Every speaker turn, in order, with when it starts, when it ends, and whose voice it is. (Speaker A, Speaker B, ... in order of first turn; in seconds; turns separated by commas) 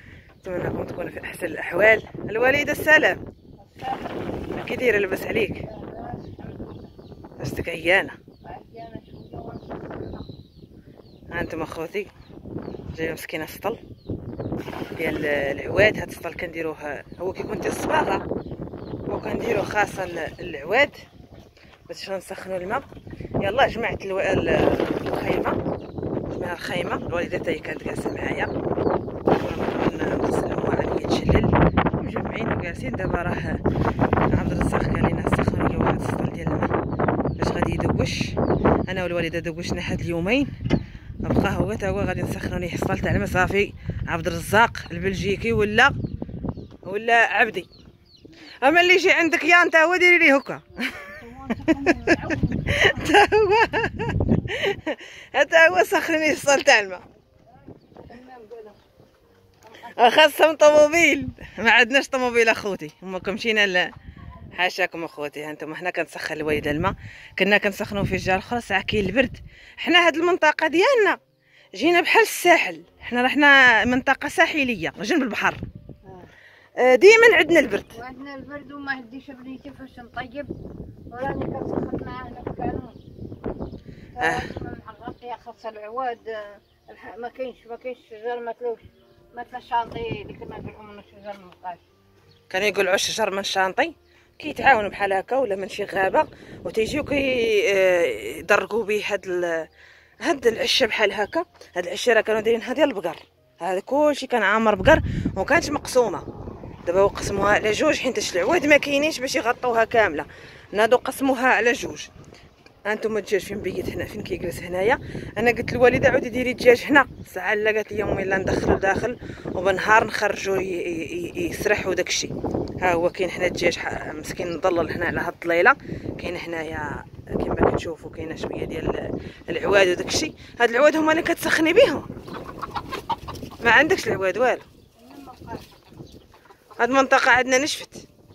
Speaker A: 0.4-3.2, Speaker B: 3.6-4.5, Speaker A: 4.5-5.6, Speaker B: 5.6-6.9, Speaker A: 7.4-8.1, Speaker B: 8.4-10.3, Speaker A: 11.3-12.1, Speaker A: 12.9-13.8, Speaker A: 15.0-18.2, Speaker A: 19.1-20.9, Speaker A: 21.9-22.8, Speaker A: 23.4-25.6, Speaker A: 26.3-28.5, Speaker A: 29.2-33.6, Speaker A: 34.3-36.7, Speaker A: 37.4-40.5, Speaker A: 41.2-46.0, Speaker A: 46.9-47.7, Speaker A: 48.6-51.1, Speaker B: 50.7-53.1, Speaker A: 51.7-57.0, Speaker B: 57.2-58.8, Speaker B: 59.6-60.2, Speaker A: 60.0-63.9, Speaker A: 64.5-71.2, Speaker A: 71.7-75.6, Speaker B: 76.0-76.3, Speaker A: 76.8-77.9, Speaker B: 77.9-80.5, Speaker B: 81.1-83.0, Speaker B: 84.2-91.8, Speaker A: 84.2-84.5, Speaker A: 92.5-99.7, Speaker A: 100.2-106.2, Speaker A: 106.8-112.1, Speaker A: 112.8-132.1, Speaker A: 133.6-134.6, Speaker B: 135.0-136.0, Speaker A: 136.8-138.0